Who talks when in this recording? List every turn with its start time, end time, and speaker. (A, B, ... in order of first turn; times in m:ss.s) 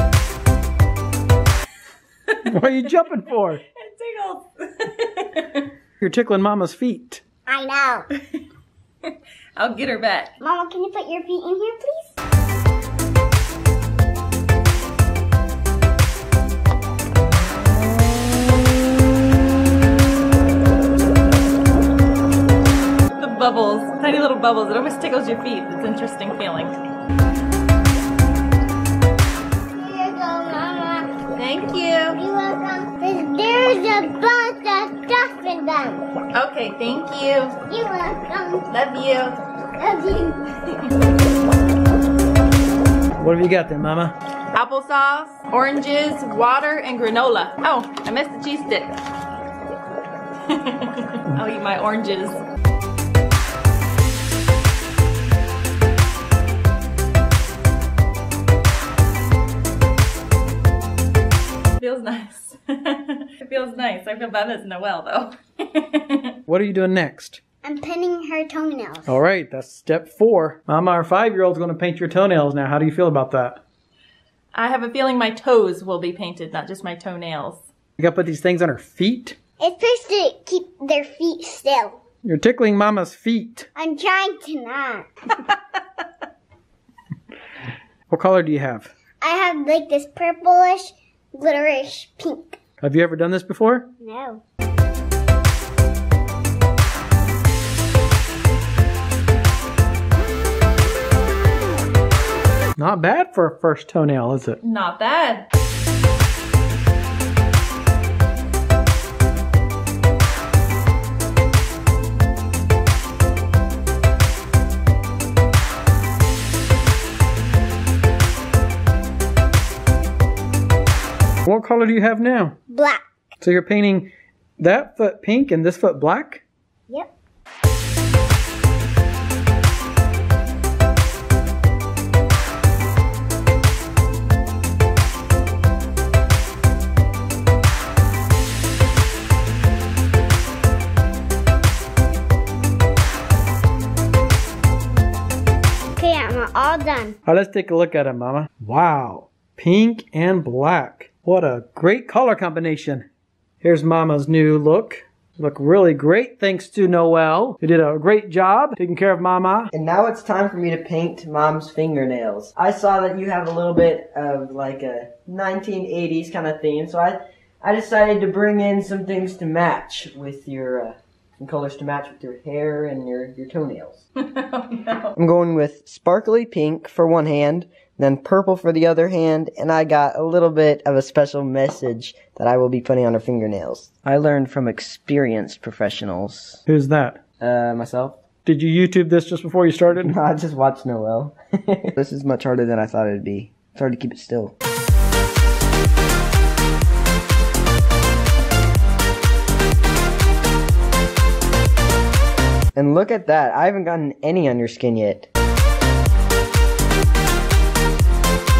0:02.4-0:03.6 A
0:03.8-0:05.7 B
0:06.0-0:07.2 A
0:07.5-0:08.0 C
0:08.1-0:08.4 B
0:09.0-0:10.3 B
0:10.4-0:12.2 C
0:23.1-0:26.8 B
0:29.7-0:31.1 C
0:31.4-0:32.2 B
0:32.1-0:36.1 C
0:36.3-0:37.6 B
0:37.7-0:38.7 C
0:38.7-0:39.4 B
0:39.8-0:40.5 C
0:43.2-0:44.1 A
0:44.5-0:48.9 B
0:50.5-0:52.4 B
1:01.8-1:06.4 B
1:06.5-1:07.4 A
1:07.6-1:09.2 C
1:09.0-1:13.6 A
1:14.5-1:17.7 B
1:18.0-1:19.4 A
1:19.6-1:22.0 C
1:22.2-1:23.7 A
1:23.8-1:25.1 C
1:28.1-1:28.9 A
1:29.2-1:32.6 C
1:32.8-1:33.9 A
1:34.0-1:34.4 C
1:42.8-1:44.6 A
1:44.6-1:45.5 B
2:01.4-2:02.6 A
2:02.7-2:03.0 C
2:03.4-2:06.4 A
2:26.0-2:27.2 C
2:27.2-2:33.0 A
2:33.6-2:39.7 A
2:39.7-2:54.0 D
2:54.2-2:55.1 B
2:55.2-3:06.6 D
3:06.6-3:07.2 A
3:07.4-3:08.2 D
3:08.4-3:10.1 A
3:09.9-3:14.5 D
3:22.7-3:25.3 D